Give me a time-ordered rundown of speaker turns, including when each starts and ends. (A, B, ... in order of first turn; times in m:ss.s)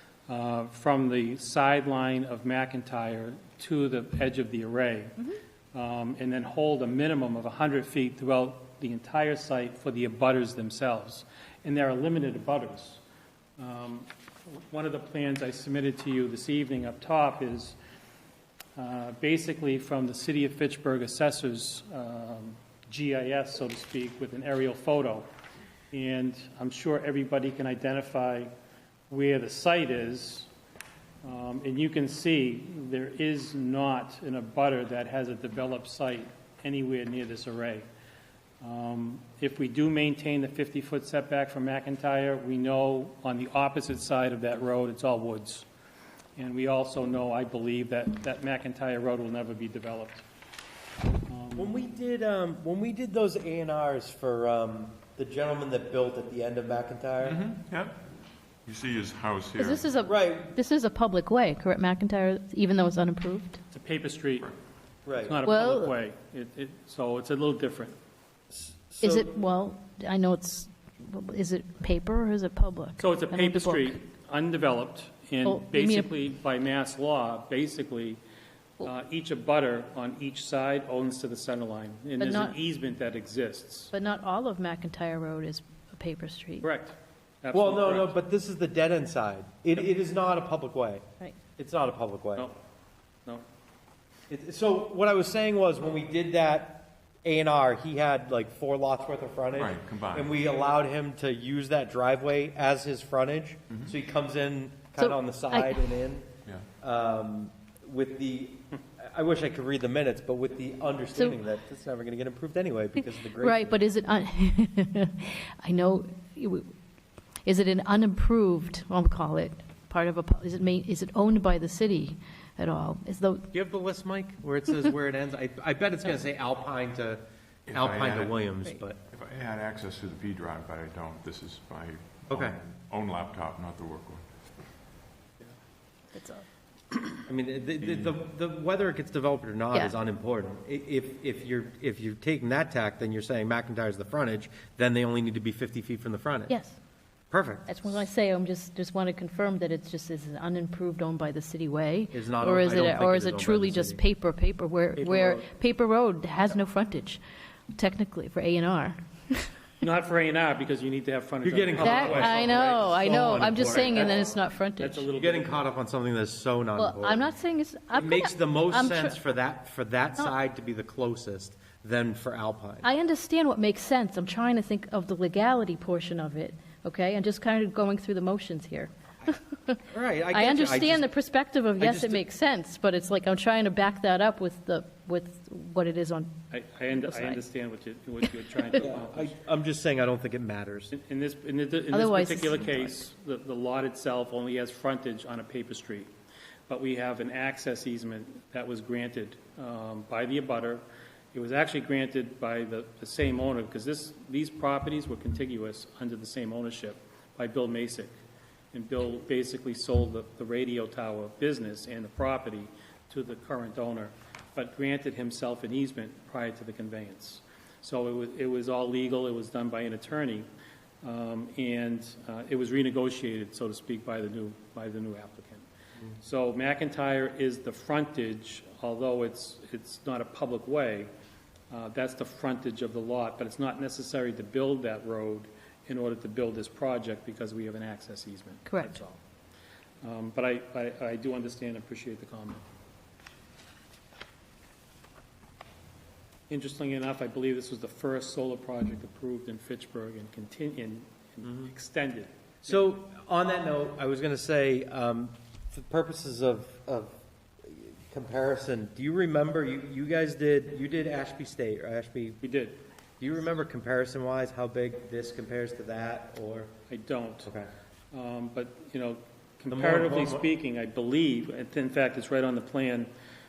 0:00.3-0:13.0 A
0:13.6-0:17.8 A
0:18.8-0:25.3 A
0:25.9-0:28.5 A
0:29.1-0:30.5 A
0:31.2-0:37.8 A
0:38.6-0:45.7 A
0:46.4-0:50.2 A
0:51.2-0:51.7 A
0:51.5-0:57.4 B
0:57.2-0:58.0 C
0:58.6-1:00.0 C
0:59.6-1:03.6 D
1:00.1-1:00.5 B
1:03.7-1:04.5 A
1:05.0-1:05.4 B
1:05.1-1:08.0 A
1:05.4-1:05.9 D
1:08.5-1:09.3 B
1:09.0-1:14.0 D
1:13.0-1:18.2 A
1:15.4-1:16.1 D
1:18.8-1:23.9 A
1:22.2-1:22.5 D
1:23.9-1:26.6 D
1:26.6-1:28.1 A
1:27.5-1:31.0 B
1:31.6-1:32.5 B
1:34.3-1:46.3 B
1:39.5-1:40.3 C
1:45.0-1:45.8 D
1:46.8-1:53.8 B
1:53.4-1:56.7 D
1:57.4-2:03.5 D
2:03.5-2:09.0 B
2:07.7-2:08.3 C
2:09.1-2:14.2 C
2:12.3-2:12.6 B
2:16.1-2:16.4 D
2:17.3-2:26.5 B
2:17.8-2:18.1 C
2:26.5-2:26.8 D
2:27.3-2:28.0 B
2:27.7-2:37.2 D
2:32.1-2:34.0 B
2:35.0-2:35.4 B
2:37.7-2:39.5 D
2:39.8-2:42.9 A
2:41.4-2:44.2 B
2:41.8-2:45.0 D
2:43.6-2:45.7 A
2:45.1-2:47.3 B
2:46.8-2:49.2 D
2:47.9-2:52.9 B
2:52.8-3:06.4 D
2:59.9-3:01.1 B
3:01.8-3:02.2 B
3:06.5-3:09.3 A
3:06.9-3:07.4 D
3:08.8-3:10.9 B
3:10.9-3:16.1 A
3:11.9-3:13.0 D
3:16.7-3:28.1 A
3:28.7-3:40.5 A
3:41.0-3:45.6 A
3:46.2-3:51.1 A
3:51.7-3:59.2 A
3:58.6-3:59.0 D
4:00.0-4:02.6 A
4:06.5-4:12.8 A
4:11.4-4:11.7 B
4:12.6-4:22.4 B
4:22.4-4:22.8 A
4:23.2-4:26.7 B
4:26.9-4:27.5 A
4:28.1-4:33.1 A
4:29.7-4:30.4 B